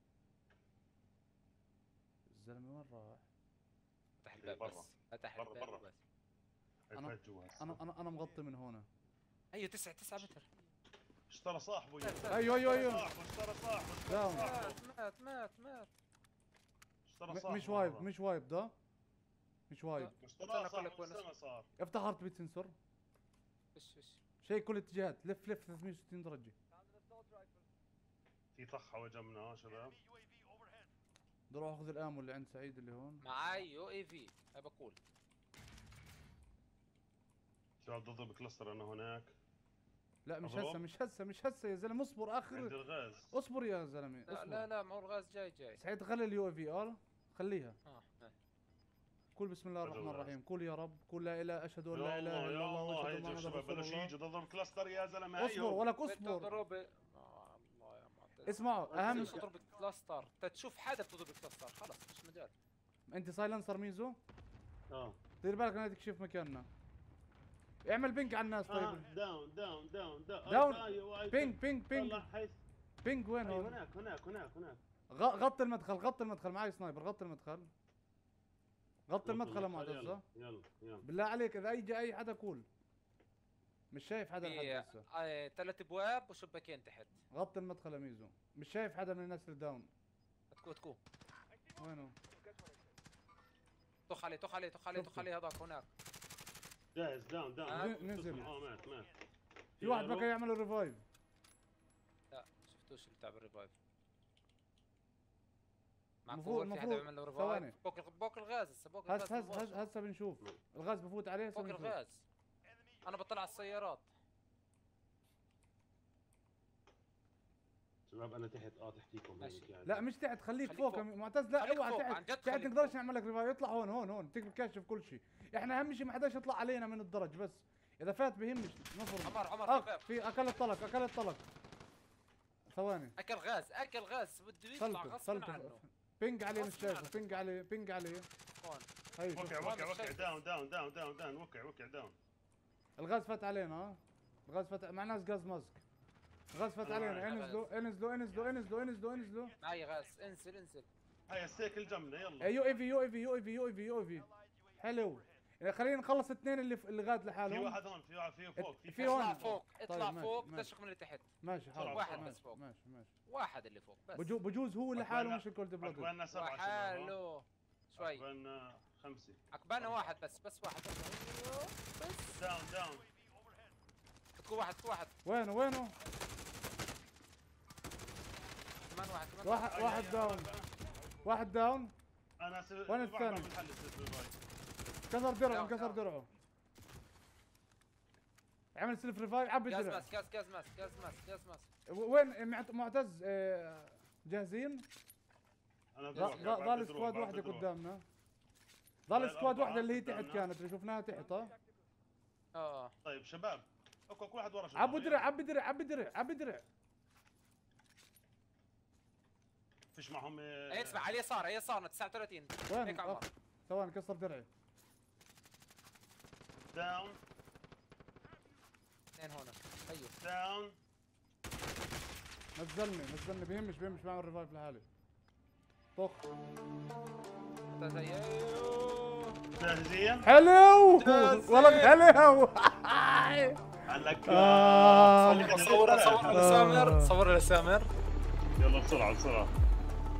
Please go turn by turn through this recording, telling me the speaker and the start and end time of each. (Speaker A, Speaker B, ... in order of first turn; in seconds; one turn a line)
Speaker A: 2.3-3.2
Speaker B: 4.2-6.0
Speaker C: 4.4-5.8
Speaker C: 6.9-7.8
Speaker A: 7.0-8.9
Speaker B: 9.5-10.5
Speaker C: 11.3-14.8
Speaker B: 12.0-13.0
Speaker A: 12.3-13.1
Speaker A: 14.1-14.6
Speaker B: 14.3-15.9
Speaker C: 17.1-18.1
Speaker A: 17.3-18.7
Speaker A: 19.7-20.1
Speaker B: 20.0-21.2
Speaker C: 20.2-21.7
Speaker A: 21.8-22.8
Speaker B: 23.7-24.2
Speaker A: 24.4-26.6
Speaker C: 28.6-30.0
Speaker A: 31.5-33.2
Speaker B: 33.2-35.0
Speaker C: 37.8-39.3
Speaker A: 40.3-42.7
Speaker C: 40.4-40.8
Speaker C: 42.5-43.3
Speaker A: 43.3-44.7
Speaker B: 44.3-45.8
Speaker A: 45.8-47.8
Speaker B: 47.9-48.4
Speaker A: 49.4-54.1
Speaker C: 49.8-50.3
Speaker C: 51.9-55.9
Speaker A: 55.4-56.6
Speaker B: 56.0-62.5
Speaker A: 58.4-59.5
Speaker C: 58.9-59.5
Speaker A: 63.1-64.2
Speaker C: 64.9-65.2
Speaker A: 65.4-66.7
Speaker A: 67.8-69.1
Speaker C: 68.7-72.6
Speaker A: 70.5-72.2
Speaker A: 73.0-73.8
Speaker C: 73.4-74.8
Speaker A: 75.1-77.7
Speaker A: 79.1-80.2
Speaker C: 79.2-81.0
Speaker A: 81.0-82.7
Speaker A: 83.9-85.0
Speaker B: 84.4-87.2
Speaker A: 87.3-89.9
Speaker B: 90.5-91.0
Speaker A: 91.8-92.2
Speaker B: 94.1-95.9
Speaker A: 94.9-95.3
Speaker C: 97.0-99.1
Speaker B: 97.6-98.0
Speaker A: 97.7-98.5
Speaker C: 99.8-100.3
Speaker A: 99.8-101.0
Speaker B: 102.3-103.7
Speaker B: 106.2-109.9
Speaker A: 106.3-107.8
Speaker A: 109.1-112.0
Speaker B: 111.5-112.2
Speaker B: 113.0-114.1
Speaker C: 118.1-120.0
Speaker B: 119.4-119.7
Speaker A: 119.9-131.4
Speaker B: 120.7-121.0
Speaker B: 121.6-122.9
Speaker B: 129.2-130.1
Speaker A: 132.7-133.2
Speaker B: 133.2-135.8
Speaker A: 134.8-138.3
Speaker B: 136.5-137.5
Speaker B: 138.6-140.4
Speaker A: 139.2-139.8
Speaker C: 139.3-142.2
Speaker A: 143.0-145.8
Speaker A: 146.5-149.6
Speaker C: 146.8-147.3
Speaker B: 147.2-147.7
Speaker B: 149.6-150.9
Speaker C: 151.3-152.5
Speaker A: 152.4-157.8
Speaker C: 157.5-159.6
Speaker A: 158.6-160.7
Speaker B: 159.0-161.3
Speaker A: 161.4-163.1
Speaker C: 161.7-162.3
Speaker B: 161.8-162.6
Speaker B: 163.3-164.3
Speaker A: 164.2-166.1
Speaker C: 164.9-167.2
Speaker B: 166.3-168.2
Speaker C: 168.0-170.0
Speaker B: 169.5-172.4
Speaker C: 172.4-173.1
Speaker B: 174.4-175.2
Speaker A: 175.2-175.9
Speaker B: 178.8-180.1
Speaker A: 179.4-180.5
Speaker C: 179.7-180.7
Speaker A: 181.2-181.9
Speaker C: 182.4-184.3
Speaker A: 182.9-183.5
Speaker A: 185.1-186.3
Speaker B: 185.5-186.0
Speaker A: 188.8-190.1
Speaker B: 189.7-191.7
Speaker A: 191.9-194.9
Speaker C: 195.9-197.7
Speaker B: 196.2-196.4
Speaker A: 196.2-198.1
Speaker A: 199.1-201.6
Speaker C: 199.1-200.5
Speaker B: 202.5-202.9
Speaker C: 203.0-205.3
Speaker A: 204.8-206.7
Speaker C: 209.9-211.1
Speaker B: 210.7-213.3
Speaker A: 212.7-214.5
Speaker C: 216.7-217.2
Speaker B: 219.2-220.2
Speaker C: 220.2-220.8
Speaker A: 222.6-224.8
Speaker A: 226.0-226.3
Speaker B: 227.7-229.7
Speaker C: 229.6-230.3
Speaker A: 230.2-233.6
Speaker B: 230.9-232.0
Speaker C: 233.9-236.7
Speaker A: 234.3-235.7
Speaker B: 235.2-237.9
Speaker A: 236.3-237.1
Speaker C: 238.6-239.5